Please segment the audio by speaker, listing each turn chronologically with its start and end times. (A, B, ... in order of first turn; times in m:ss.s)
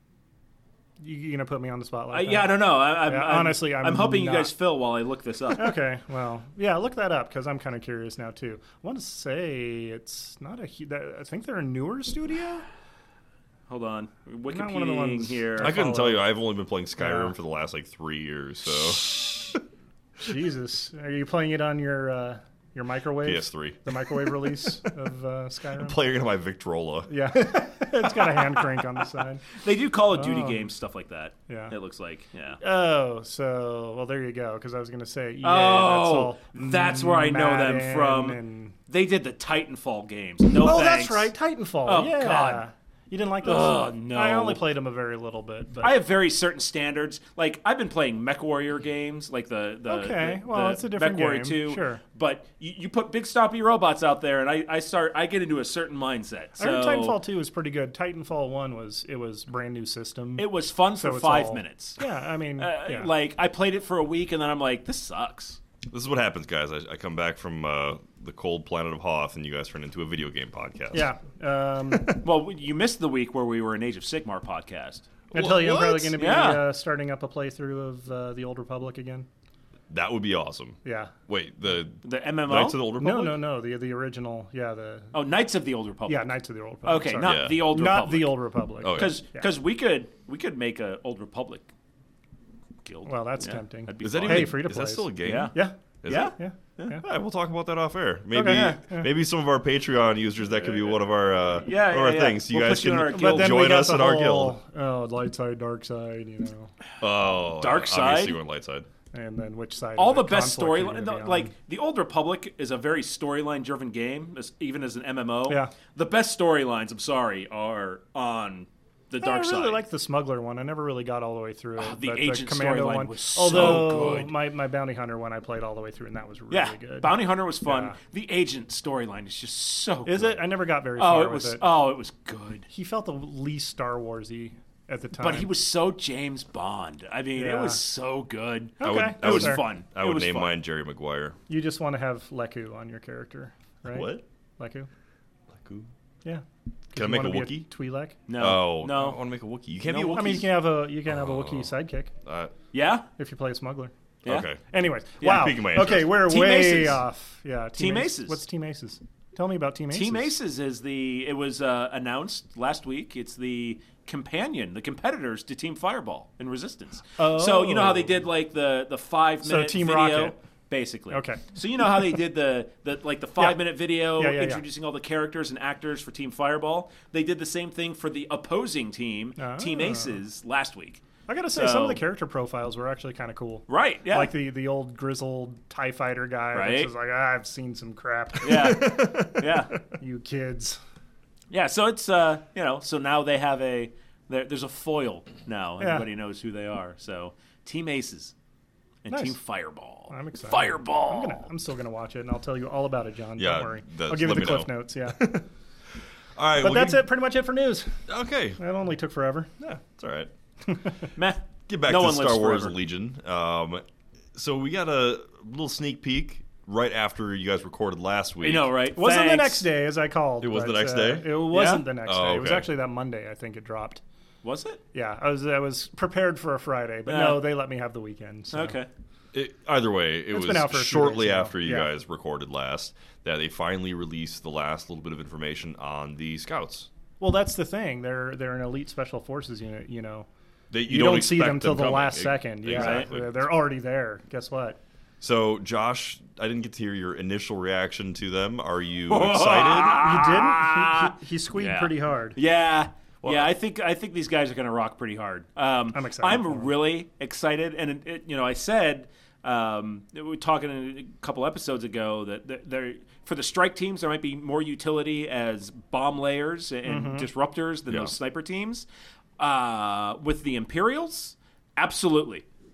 0:01.0-0:04.5 A
0:02.1-0:05.8 B
0:05.6-0:12.6 A
0:13.7-0:15.8 B
0:14.5-0:16.3 A
0:15.6-0:19.6 C
0:17.0-0:17.3 A
0:20.2-0:26.0 A
0:23.2-0:24.9 C
0:25.8-0:27.1 C
0:27.1-0:29.4 A
0:29.6-0:32.6 B
0:30.1-0:30.7 A
0:31.5-0:31.7 A
0:32.6-0:38.7 A
0:35.4-0:41.3 B
0:40.6-0:46.0 A
0:41.8-0:42.6 B
0:43.4-0:44.6 B
0:45.8-0:57.2 B
0:49.9-0:52.0 A
0:56.6-1:03.1 A
1:00.4-1:02.0 B
1:02.6-1:05.6 B
1:05.9-1:11.1 C
1:10.9-1:12.2 A
1:12.2-1:15.1 B
1:15.3-1:16.1 C
1:15.3-1:19.3 A
1:16.2-1:16.7 B
1:19.9-1:23.4 C
1:20.8-1:21.1 A
1:22.0-1:22.8 B
1:23.0-1:25.1 A
1:25.1-1:26.3 B
1:26.0-1:29.5 A
1:26.8-1:31.7 B
1:27.2-1:27.7 C
1:28.8-1:29.2 C
1:32.8-1:34.7 B
1:33.0-1:37.0 A
1:34.0-1:36.3 C
1:35.2-1:35.6 B
1:36.1-1:37.0 B
1:37.0-1:44.6 C
1:38.3-1:39.1 A
1:40.6-1:40.9 B
1:41.5-1:43.6 B
1:43.1-1:46.7 A
1:47.0-1:48.9 C
1:47.6-1:48.4 B
1:49.1-1:51.5 A
1:50.0-1:59.8 B
1:59.2-2:08.0 A
2:01.8-2:04.3 B
2:03.5-2:03.8 C
2:06.5-2:12.7 B
2:10.0-2:11.6 A
2:12.7-2:15.5 A
2:15.2-2:20.6 B
2:17.4-2:17.8 A
2:18.8-2:19.6 A
2:18.8-2:21.4 C
2:21.5-2:24.9 A
2:23.8-2:24.2 C
2:25.5-2:25.9 C
2:26.2-2:28.2 A
2:26.9-2:27.7 C
2:28.3-2:29.2 B
2:28.3-2:30.5 C
2:29.8-2:30.5 B
2:30.1-2:32.1 A
2:31.1-2:31.7 C
2:32.2-2:32.5 C
2:32.7-2:33.1 B
2:33.2-2:33.9 A
2:34.2-2:34.6 C
2:34.7-2:40.3 A
2:35.2-2:36.2 C
2:35.2-2:37.0 B
2:37.8-2:38.4 B
2:39.9-3:01.0 B
2:47.2-2:48.2 A
2:49.4-2:50.4 A
2:51.1-2:51.5 A
2:54.2-2:54.6 A
2:59.4-3:00.2 A
3:01.3-3:10.8 A
3:01.5-3:02.0 B
3:03.7-3:04.3 B
3:06.5-3:06.9 B
3:08.4-3:09.7 B
3:11.5-3:18.3 B
3:15.8-3:16.0 A
3:19.0-3:21.5 B
3:19.1-3:19.4 A
3:20.1-3:25.4 A
3:23.4-3:25.4 C
3:26.4-3:27.1 C
3:26.6-3:28.0 A
3:28.1-3:28.6 C
3:28.6-3:29.5 A
3:29.6-3:30.3 C
3:31.2-3:32.8 B
3:31.7-3:38.7 C
3:38.4-3:39.7 B
3:39.0-3:44.0 A
3:40.4-3:41.5 C
3:41.5-3:41.8 B
3:42.0-3:42.7 C
3:44.4-3:44.8 B
3:44.9-3:48.8 A
3:47.1-3:47.6 B
3:48.5-3:48.9 B
3:49.3-3:56.9 C
3:50.3-3:51.9 A
3:57.2-4:00.3 A
4:00.7-4:03.5 C
4:00.8-4:04.8 A
4:02.7-4:03.1 B
4:05.2-4:10.2 C
4:09.1-4:28.8 B
4:09.7-4:12.4 A
4:13.2-4:13.5 C
4:15.9-4:16.7 A
4:26.8-4:27.3 A
4:27.9-4:28.1 C
4:29.4-4:32.4 B